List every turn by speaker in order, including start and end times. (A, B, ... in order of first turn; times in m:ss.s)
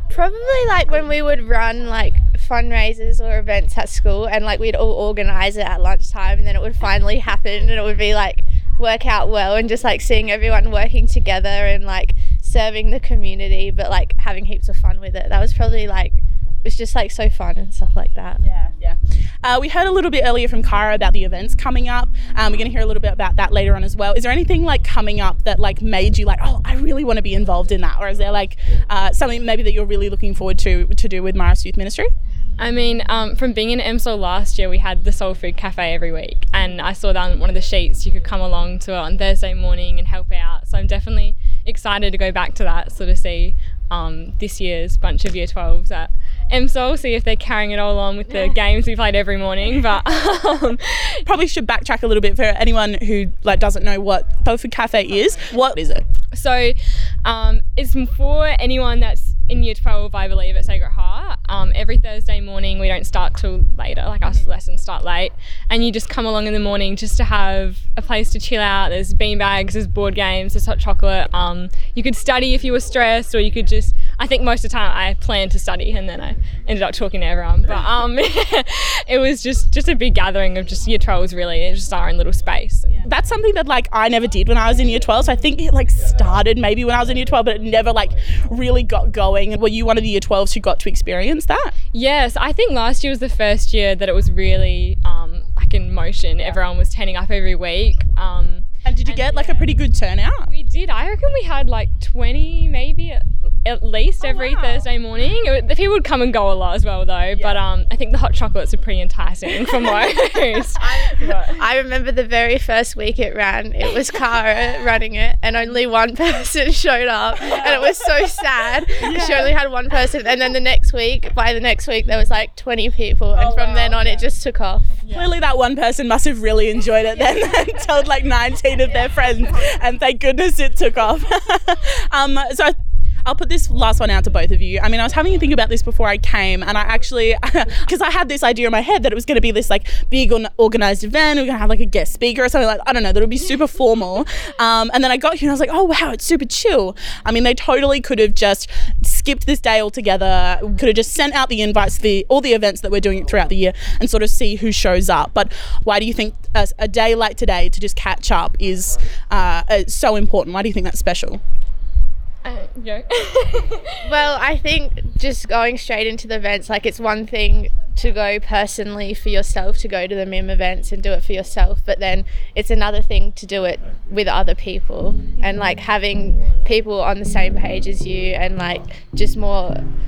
0:00.1-0:18.4 A
0:18.4-0:32.1 B
0:32.6-0:51.2 C
0:51.2-0:56.0 B
0:56.3-1:23.0 C
1:23.0-1:31.7 B
1:31.9-1:39.8 C
1:38.8-1:40.5 B
1:40.4-1:51.6 C
1:51.2-2:05.0 A
1:59.0-1:59.5 B
2:03.4-2:03.9 B
2:05.1-2:41.4 B
2:42.4-2:44.0 C
2:44.0-2:59.8 A